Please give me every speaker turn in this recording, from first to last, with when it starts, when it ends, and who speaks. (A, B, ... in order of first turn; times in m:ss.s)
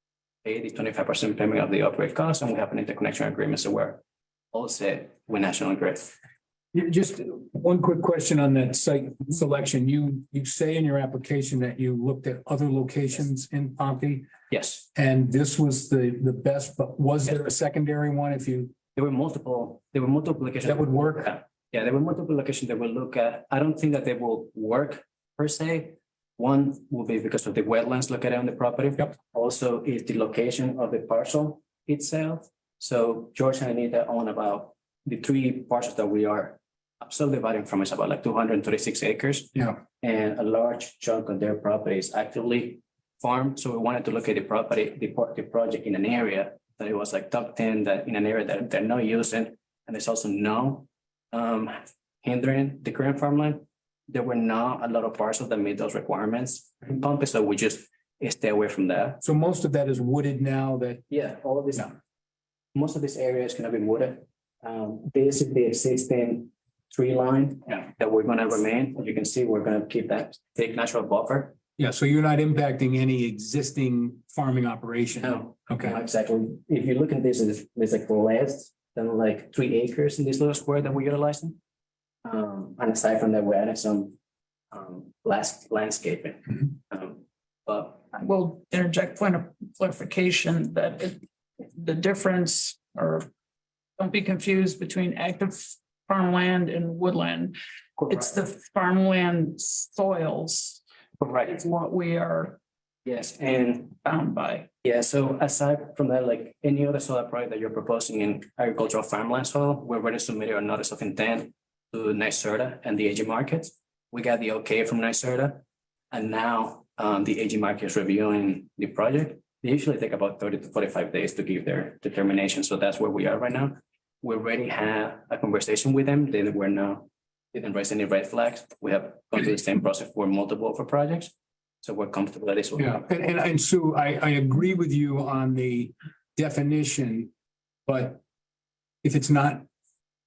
0:00.4-0:04.0 A
0:04.5-0:06.1 A
0:06.7-0:14.3 B
0:14.5-0:14.8 A
0:14.9-0:18.7 B
0:18.9-0:59.2 A
0:20.6-0:21.4 B
0:59.2-1:01.0 B
1:01.1-1:02.0 A
1:02.7-1:11.6 A
1:11.8-1:16.0 B
1:15.2-1:21.6 A
1:22.2-1:24.2 A
1:24.7-1:28.0 A
1:28.1-1:33.3 C
1:34.0-1:37.6 C
1:38.0-1:38.3 A
1:38.1-1:40.8 C
1:41.2-1:41.6 A
1:41.5-1:42.6 C
1:43.0-1:44.0 A
1:44.0-1:44.7 C
1:44.8-2:13.0 A
2:12.8-2:17.3 B
2:17.9-2:18.2 B
2:19.0-2:19.6 B